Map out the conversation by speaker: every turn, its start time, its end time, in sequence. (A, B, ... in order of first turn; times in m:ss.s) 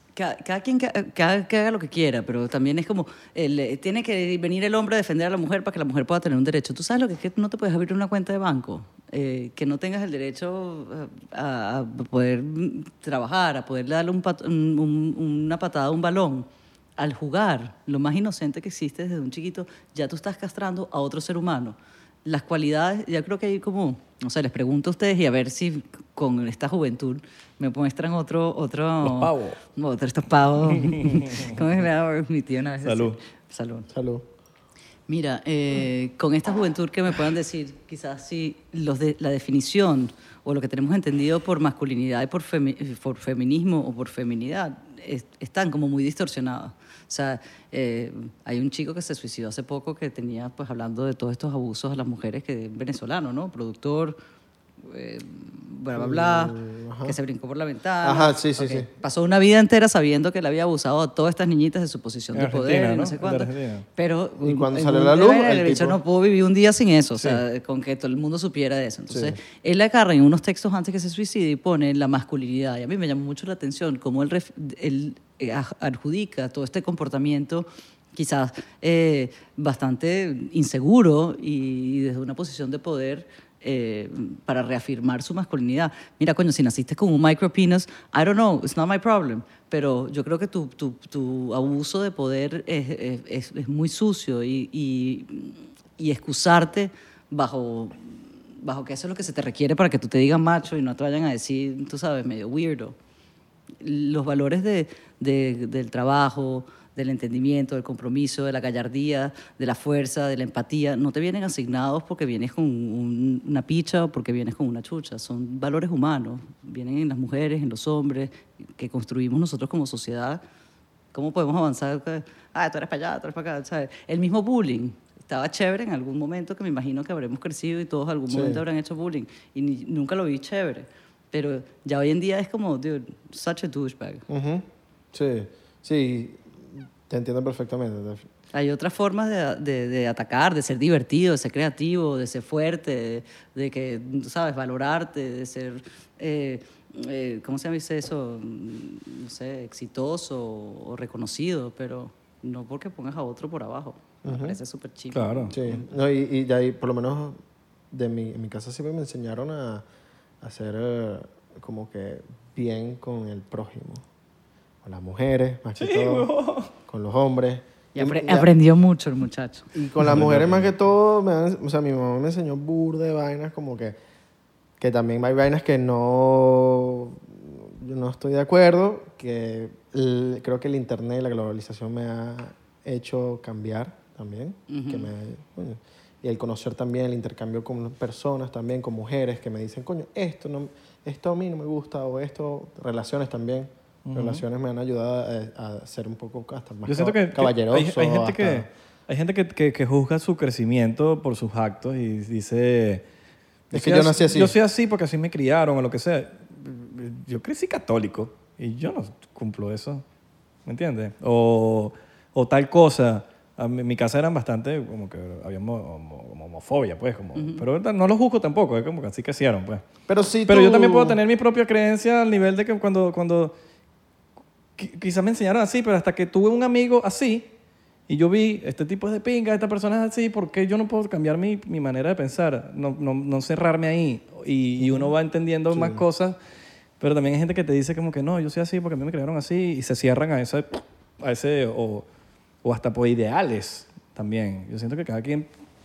0:00.1-0:33.9 A
0:29.0-0:29.6 B
0:30.8-0:31.5 B
0:32.8-0:33.2 B
0:33.9-0:34.2 C
0:35.1-0:54.2 A
0:54.8-1:42.9 A
0:55.9-0:57.2 C
0:58.0-0:58.9 C
1:02.3-1:03.8 B
1:04.4-1:06.0 C
1:07.2-1:07.4 B
1:09.1-1:09.4 C
1:43.8-2:00.4 A
2:01.1-2:14.2 A
2:08.3-2:08.6 C
2:14.3-2:18.2 C
2:18.5-2:35.8 A
2:34.2-2:34.6 C
2:35.1-2:35.5 B
2:35.5-2:37.4 C
2:37.9-2:39.8 C
2:40.4-2:44.0 C
2:44.8-2:46.3 C
2:45.8-2:46.7 B
2:46.9-2:48.5 C
2:47.9-2:49.7 A
2:49.7-2:54.0 C
2:50.0-2:50.7 B
2:54.8-3:18.7 C
3:04.7-3:05.1 A
3:14.0-3:14.4 B
3:16.9-3:23.0 B
3:23.7-3:30.0 B
3:23.7-3:24.5 C
3:30.6-3:39.8 B
3:37.3-3:37.6 A
3:40.1-3:41.2 C
3:40.5-3:43.5 B
3:44.8-3:47.5 B
3:48.1-3:56.4 B
3:54.8-3:55.1 C
3:55.7-3:56.0 C
3:57.0-4:02.0 B
4:02.6-4:05.5 B